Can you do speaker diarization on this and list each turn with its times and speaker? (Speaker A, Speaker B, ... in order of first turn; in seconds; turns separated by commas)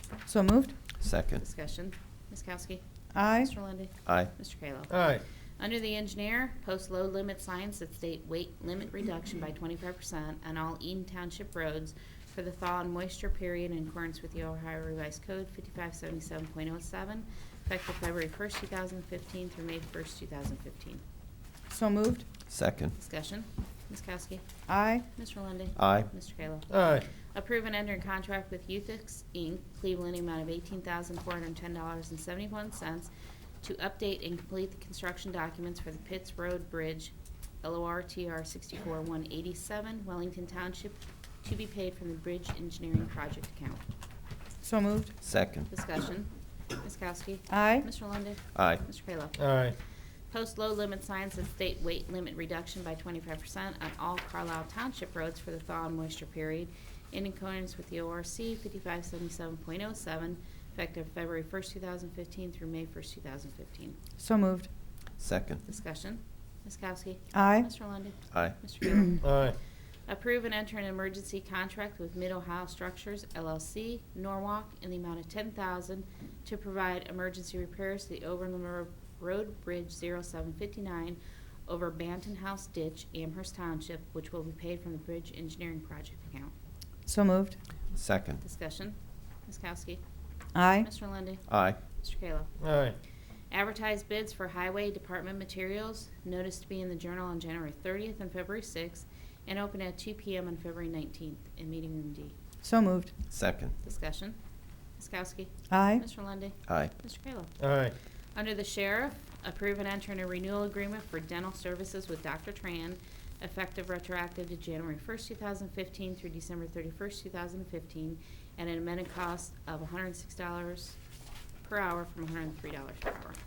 Speaker A: 0.3-0.7, Speaker B: 1.0-1.4, Speaker C: 1.4-5.0, Speaker A: 3.1-3.5, Speaker B: 4.0-4.3, Speaker D: 4.9-5.2, Speaker C: 5.6-21.0, Speaker A: 21.7-22.2, Speaker B: 22.5-22.9, Speaker C: 23.0-24.4, Speaker A: 24.7-25.0, Speaker C: 25.1-26.8, Speaker B: 25.8-26.1, Speaker D: 26.7-27.0, Speaker C: 27.3-33.1, Speaker C: 33.6-43.8, Speaker A: 44.6-45.1, Speaker B: 45.2-45.7, Speaker C: 45.7-46.3, Speaker C: 46.8-49.5, Speaker A: 47.5-47.9, Speaker B: 48.5-48.8, Speaker D: 49.4-49.7, Speaker C: 50.3-64.0, Speaker A: 64.2-64.7, Speaker B: 65.2-65.6, Speaker C: 65.7-69.4, Speaker A: 67.3-67.7, Speaker B: 68.3-68.6, Speaker D: 69.2-69.5, Speaker C: 70.1-86.5, Speaker A: 87.1-87.6, Speaker B: 87.9-88.4, Speaker C: 88.4-90.0, Speaker A: 90.5-90.9, Speaker C: 90.8-91.4, Speaker B: 91.5-91.8, Speaker C: 92.0-92.5, Speaker D: 92.6-93.0, Speaker C: 93.5-102.3, Speaker A: 102.6-103.1, Speaker B: 103.3-103.7, Speaker C: 103.8-104.4, Speaker C: 105.0-107.5, Speaker A: 105.7-106.0, Speaker B: 106.7-106.9, Speaker D: 107.6-107.9, Speaker C: 108.3-121.0, Speaker C: 121.6-123.4